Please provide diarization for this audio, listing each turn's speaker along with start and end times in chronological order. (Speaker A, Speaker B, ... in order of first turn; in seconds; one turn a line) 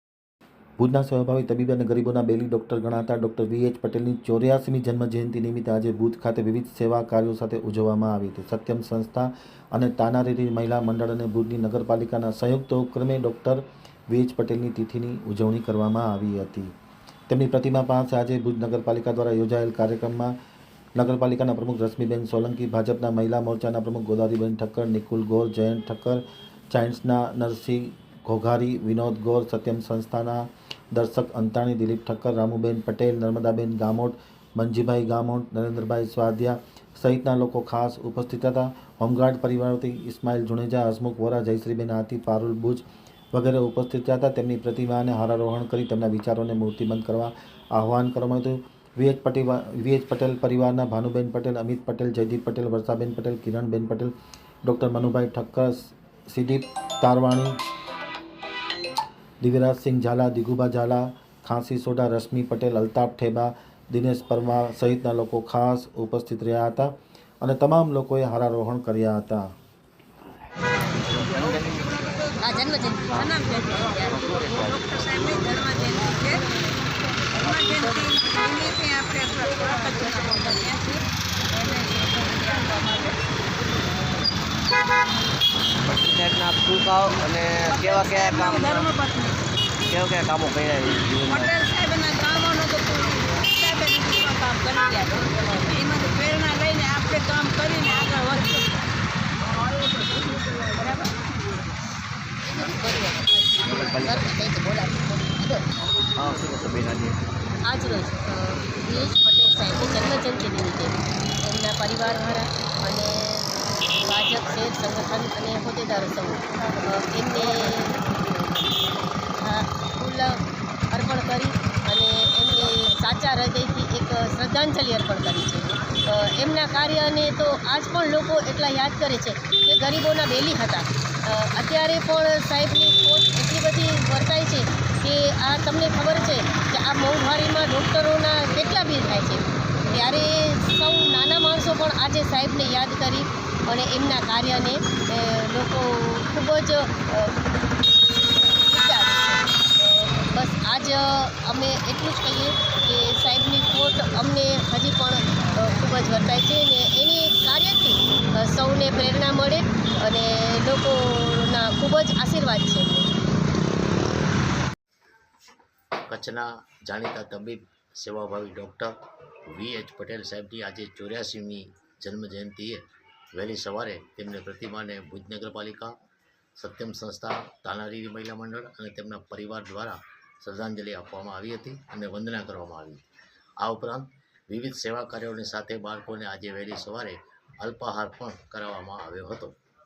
Speaker A: 0.8-16.7
Speaker A: 17.3-20.4
Speaker A: 20.9-54.1
Speaker A: 54.6-57.6
Speaker A: 59.4-69.5
Speaker B: 71.1-72.0
Speaker C: 72.4-73.3
Speaker D: 73.1-76.8
Speaker B: 74.3-74.7
Speaker D: 77.3-83.2
Speaker B: 85.8-88.9
Speaker D: 87.7-89.5
Speaker B: 89.9-91.5
Speaker D: 91.3-98.8
Speaker D: 100.7-101.2
Speaker C: 102.4-105.7
Speaker B: 103.6-104.3
Speaker B: 106.2-107.2
Speaker C: 107.6-147.6
Speaker C: 148.2-163.1
Speaker E: 166.1-169.0
Speaker E: 169.5-175.9
Speaker E: 176.6-183.0
Speaker E: 183.6-189.6